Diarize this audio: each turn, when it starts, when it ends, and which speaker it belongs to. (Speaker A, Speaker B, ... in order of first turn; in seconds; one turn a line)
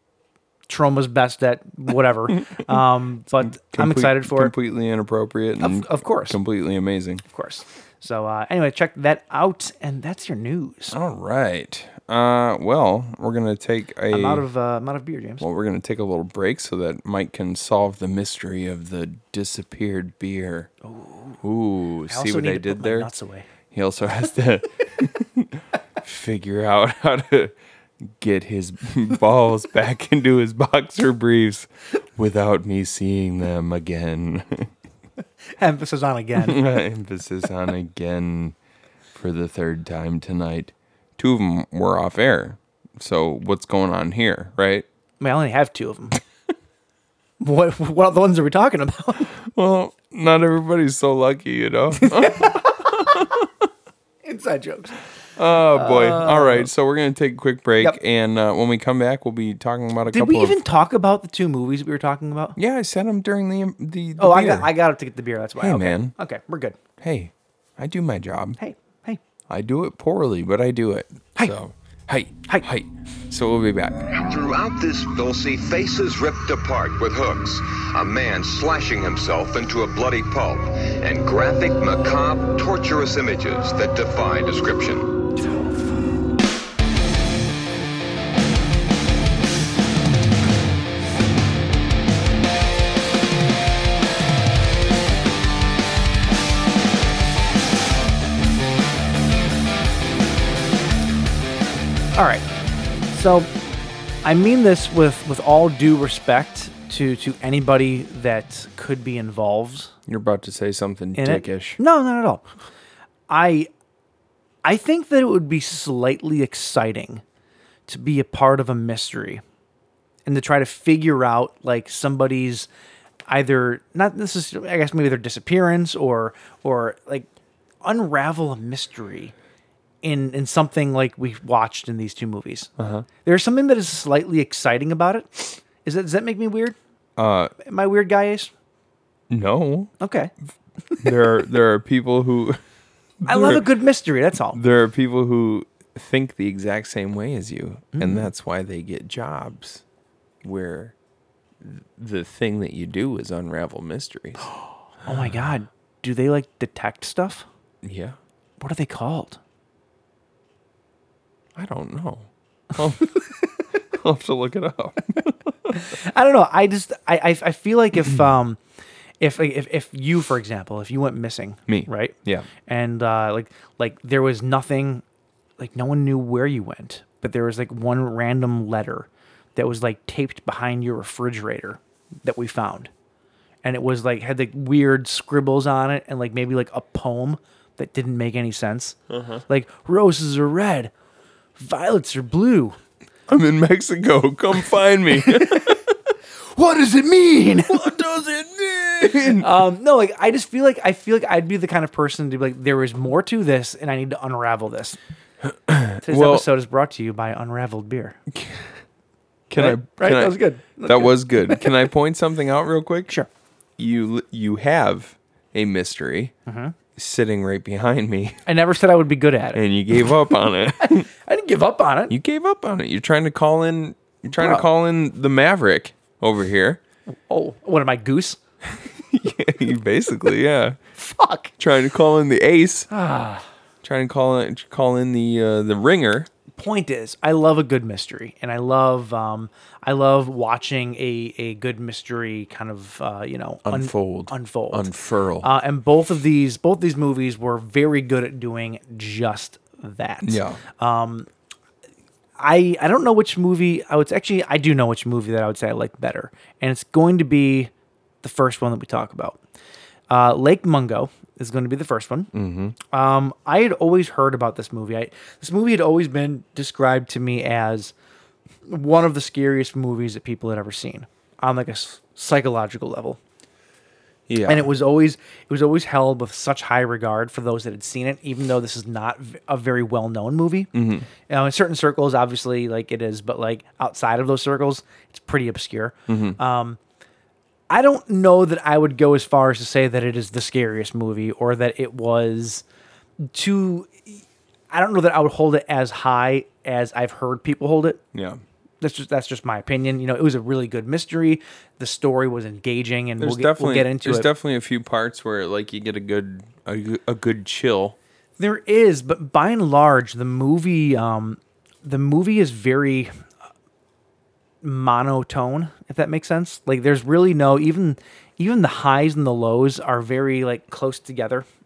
Speaker A: 0.7-4.5
Speaker B: 3.4-7.2
Speaker A: 5.6-6.4
Speaker A: 7.3-11.0
Speaker B: 10.9-14.5
Speaker A: 14.1-15.4
Speaker B: 15.4-20.7
Speaker A: 20.8-21.4
Speaker B: 21.4-23.1
Speaker A: 22.1-23.5
Speaker B: 23.7-34.7
Speaker A: 35.6-36.6
Speaker B: 36.4-38.6
Speaker B: 39.1-44.9
Speaker A: 45.2-46.2
Speaker A: 47.4-49.3
Speaker B: 49.4-53.5
Speaker A: 52.0-52.9
Speaker A: 54.2-55.0
Speaker B: 55.4-60.6
Speaker A: 55.7-56.7
Speaker A: 60.1-62.6
Speaker B: 62.6-64.7
Speaker A: 64.2-66.8
Speaker B: 65.6-66.1
Speaker B: 67.0-68.6
Speaker A: 68.6-69.2
Speaker B: 69.5-74.0
Speaker C: 74.1-85.1
Speaker A: 102.2-102.5
Speaker A: 103.1-103.5
Speaker A: 104.2-109.9
Speaker B: 110.1-111.8
Speaker A: 111.2-112.5
Speaker A: 113.3-113.7
Speaker A: 114.6-117.2
Speaker A: 117.9-119.4
Speaker A: 120.3-122.7
Speaker A: 123.3-127.3
Speaker A: 127.8-129.3
Speaker A: 130.0-132.7
Speaker B: 132.8-133.1
Speaker A: 133.2-136.8
Speaker B: 137.2-137.5
Speaker A: 137.6-138.5
Speaker B: 139.3-139.9
Speaker A: 140.0-140.3
Speaker B: 141.0-142.6
Speaker B: 143.2-143.7
Speaker A: 143.2-144.6
Speaker B: 144.5-149.8
Speaker A: 147.9-148.3
Speaker B: 150.4-150.9
Speaker B: 151.6-154.5
Speaker A: 154.5-157.5
Speaker B: 157.8-158.2
Speaker A: 158.6-159.4
Speaker B: 161.6-163.2
Speaker B: 163.9-165.8
Speaker A: 165.7-168.6
Speaker A: 169.2-172.1
Speaker B: 171.7-172.5
Speaker A: 172.7-175.0
Speaker A: 175.6-182.9
Speaker A: 183.6-189.0
Speaker B: 189.1-189.4
Speaker A: 189.5-190.9
Speaker A: 191.6-192.8
Speaker B: 193.3-195.8
Speaker A: 195.3-195.8
Speaker A: 196.4-197.9
Speaker B: 197.7-199.5
Speaker A: 199.1-205.0
Speaker B: 205.4-206.5
Speaker A: 206.0-208.2
Speaker B: 208.3-208.7
Speaker B: 209.5-213.2
Speaker A: 209.5-211.7
Speaker B: 213.8-216.3
Speaker A: 216.5-216.8
Speaker B: 217.0-218.4
Speaker A: 218.5-219.6
Speaker B: 219.5-221.1
Speaker A: 220.8-222.1
Speaker B: 222.1-226.8
Speaker A: 224.4-224.6
Speaker A: 227.1-228.4
Speaker B: 228.8-230.8
Speaker A: 231.0-231.5
Speaker B: 231.6-232.9
Speaker A: 232.9-233.5
Speaker B: 233.8-236.3
Speaker A: 236.6-244.9
Speaker B: 243.7-245.5
Speaker A: 245.4-251.3
Speaker B: 250.2-250.6
Speaker A: 252.4-257.7
Speaker A: 258.2-259.4
Speaker A: 260.1-262.3
Speaker B: 262.3-262.8
Speaker A: 262.9-267.9
Speaker A: 268.7-273.2
Speaker B: 274.3-274.7
Speaker A: 274.5-280.7
Speaker B: 280.7-281.1
Speaker A: 281.3-286.8
Speaker B: 286.1-286.4
Speaker A: 287.7-292.6
Speaker A: 293.2-294.2
Speaker A: 294.7-298.0
Speaker B: 298.1-298.4
Speaker A: 298.8-304.3
Speaker B: 303.2-308.0
Speaker A: 308.4-313.1
Speaker A: 314.6-321.5